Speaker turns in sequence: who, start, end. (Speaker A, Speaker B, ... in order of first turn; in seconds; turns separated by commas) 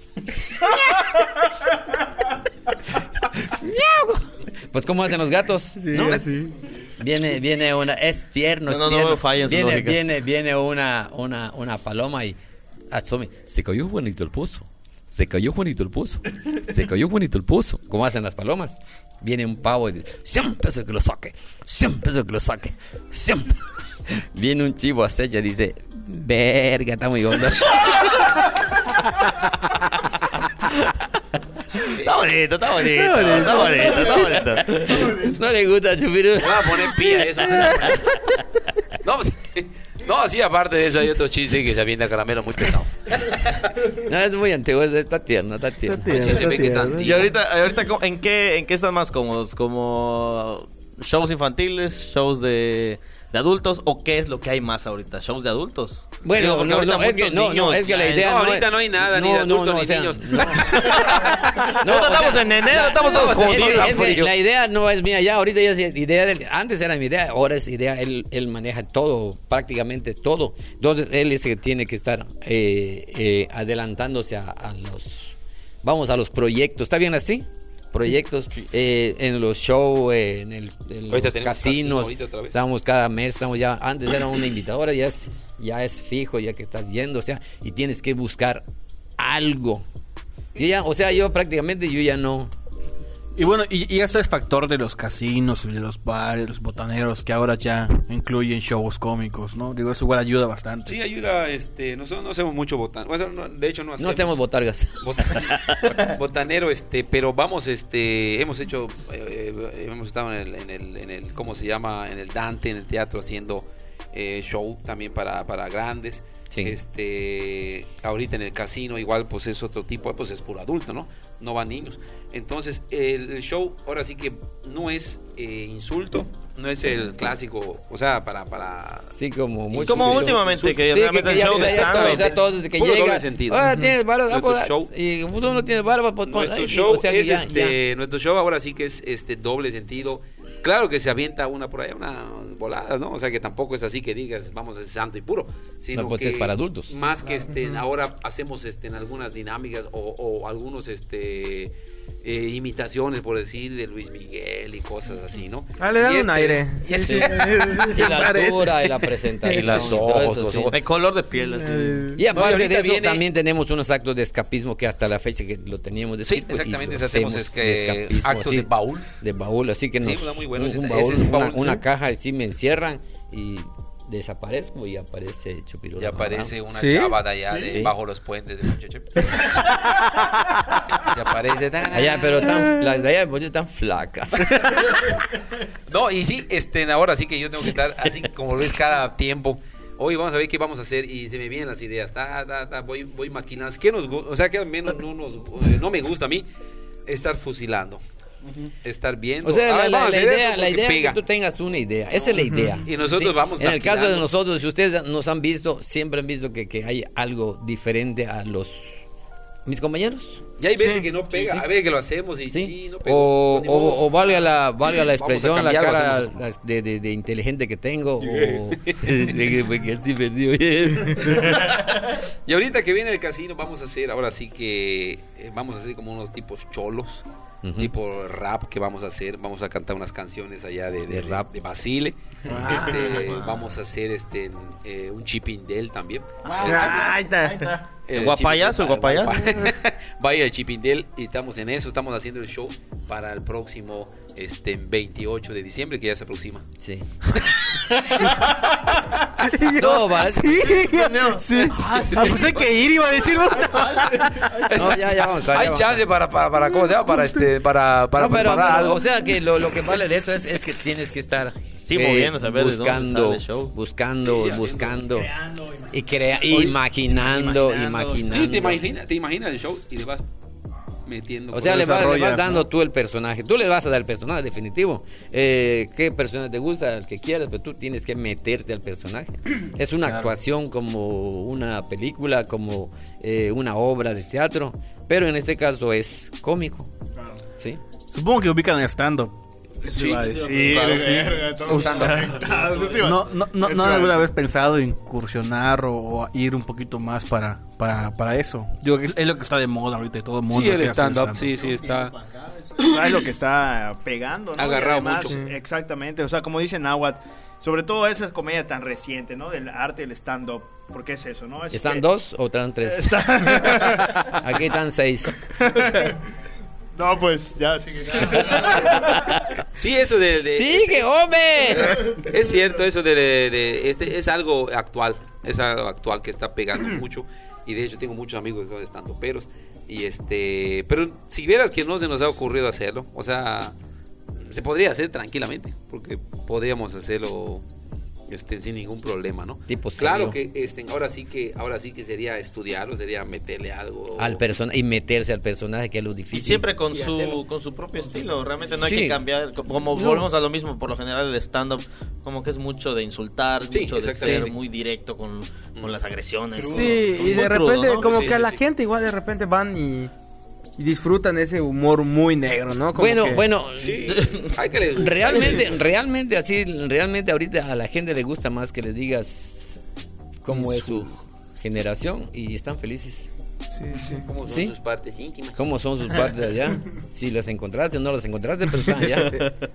Speaker A: 0.5-1.1, Speaker A: 3.4-6.3, Speaker B: 5.8-6.6, Speaker A: 7.0-12.4, Speaker C: 8.7-10.0, Speaker A: 12.9-23.6, Speaker A: 24.1-28.3, Speaker C: 31.8-35.0, Speaker B: 32.9-34.4, Speaker A: 34.6-38.4, Speaker D: 36.4-38.1, Speaker D: 39.0-43.7, Speaker A: 43.8-46.3, Speaker B: 45.8-47.2, Speaker D: 46.1-47.3, Speaker C: 47.0-58.3, Speaker A: 56.2-88.7, Speaker D: 58.2-61.8, Speaker C: 61.0-64.3, Speaker D: 62.7-64.3, Speaker D: 81.1-82.6, Speaker A: 89.2-89.8, Speaker A: 90.6-92.5, Speaker E: 93.4-101.0, Speaker D: 100.9-104.4, Speaker A: 104.0-105.5, Speaker D: 105.0-129.1, Speaker A: 116.5-116.8, Speaker A: 129.1-137.8, Speaker C: 129.7-132.4, Speaker D: 129.8-133.7, Speaker D: 134.3-134.9, Speaker D: 136.3-158.3, Speaker A: 145.9-146.9, Speaker B: 155.8-159.8, Speaker A: 157.0-160.8, Speaker D: 159.4-160.8, Speaker C: 160.7-162.2, Speaker B: 161.5-162.2, Speaker A: 162.2-176.5, Speaker D: 162.3-163.2, Speaker D: 166.3-169.1, Speaker D: 170.0-171.8, Speaker D: 176.0-179.8, Speaker B: 176.7-177.2, Speaker A: 177.7-177.9, Speaker D: 180.9-182.6, Speaker A: 181.9-185.0, Speaker D: 185.9-196.5, Speaker D: 197.1-198.0, Speaker D: 198.8-201.2, Speaker A: 199.4-209.0, Speaker D: 202.1-204.3, Speaker B: 202.4-202.7, Speaker A: 209.7-210.4, Speaker D: 210.6-216.3, Speaker B: 210.8-211.1, Speaker A: 211.3-211.7, Speaker A: 212.5-221.7, Speaker D: 218.2-219.5, Speaker D: 221.4-227.2, Speaker A: 227.6-227.9, Speaker D: 227.8-237.0, Speaker A: 231.1-231.5, Speaker B: 232.5-233.2, Speaker C: 232.9-233.6, Speaker C: 236.5-237.2, Speaker B: 236.6-237.8, Speaker D: 238.1-246.7, Speaker C: 238.1-239.4, Speaker A: 246.8-247.1, Speaker D: 247.3-248.4, Speaker B: 248.2-248.6, Speaker B: 249.2-254.7, Speaker A: 249.8-250.9, Speaker C: 250.8-252.2, Speaker D: 251.6-252.7, Speaker D: 253.7-259.1, Speaker A: 254.7-256.0, Speaker B: 257.0-257.4, Speaker A: 258.2-265.3, Speaker C: 261.8-263.7, Speaker D: 264.2-265.0, Speaker F: 265.1-268.7, Speaker A: 265.9-268.8, Speaker D: 268.3-270.2, Speaker D: 271.1-272.1, Speaker A: 271.5-286.9, Speaker E: 271.6-272.7, Speaker E: 280.1-280.3, Speaker E: 288.1-289.3, Speaker F: 289.8-294.3, Speaker E: 290.0-301.6, Speaker D: 300.5-302.1, Speaker F: 301.6-312.1, Speaker D: 304.6-305.4, Speaker A: 311.7-313.7, Speaker F: 312.8-314.4, Speaker A: 314.3-315.4, Speaker F: 315.6-316.2, Speaker F: 317.0-319.1, Speaker A: 319.1-319.4, Speaker D: 319.7-333.8, Speaker A: 320.4-322.2, Speaker D: 334.4-337.6, Speaker D: 338.3-344.4, Speaker A: 339.7-340.4, Speaker A: 344.2-346.7, Speaker C: 346.3-358.3, Speaker A: 348.8-349.2, Speaker A: 350.0-350.2, Speaker D: 353.7-354.6, Speaker A: 354.2-354.5, Speaker B: 356.6-360.1, Speaker D: 357.4-358.6, Speaker B: 360.8-363.4, Speaker A: 362.9-364.2, Speaker D: 363.8-365.8, Speaker C: 364.1-364.5, Speaker A: 364.9-369.8, Speaker A: 370.4-373.3, Speaker B: 373.9-374.2, Speaker D: 374.0-375.6, Speaker A: 374.5-374.7, Speaker A: 375.6-379.4